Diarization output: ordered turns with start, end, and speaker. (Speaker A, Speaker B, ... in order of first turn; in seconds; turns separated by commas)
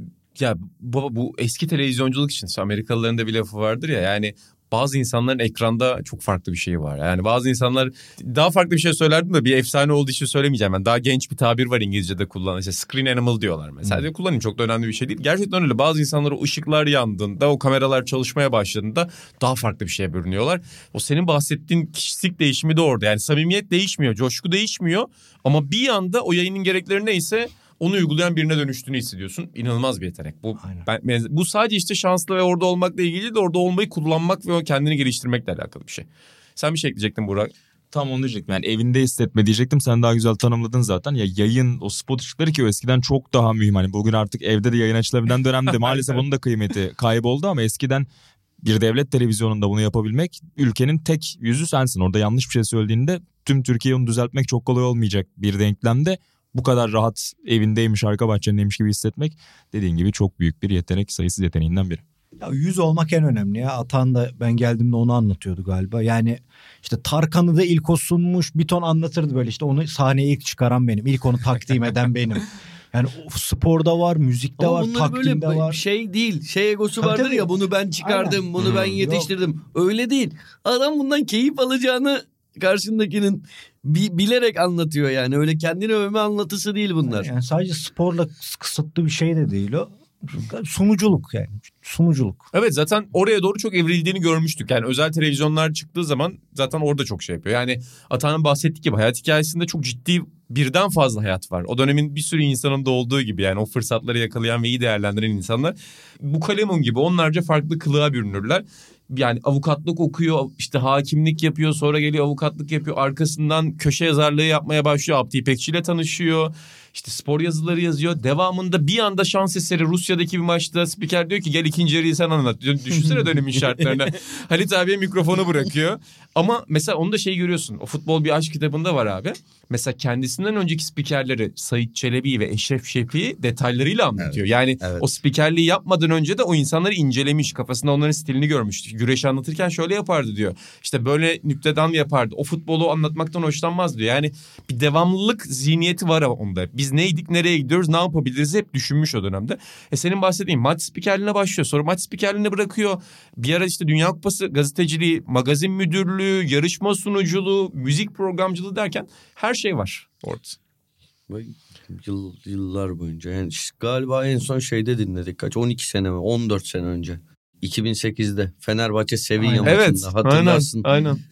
Speaker A: 0.4-36.0, Speaker B: 30.6-30.9, Speaker A: 36.6-37.5, Speaker C: 37.9-48.1, Speaker A: 45.9-46.2, Speaker C: 48.6-62.0, Speaker B: 62.4-75.8, Speaker D: 74.6-87.3, Speaker B: 77.0-79.3, Speaker A: 78.6-78.9, Speaker B: 87.1-92.4, Speaker A: 92.5-160.6, Speaker D: 134.2-135.0, Speaker D: 161.3-170.9, Speaker B: 169.4-169.8, Speaker A: 169.6-171.2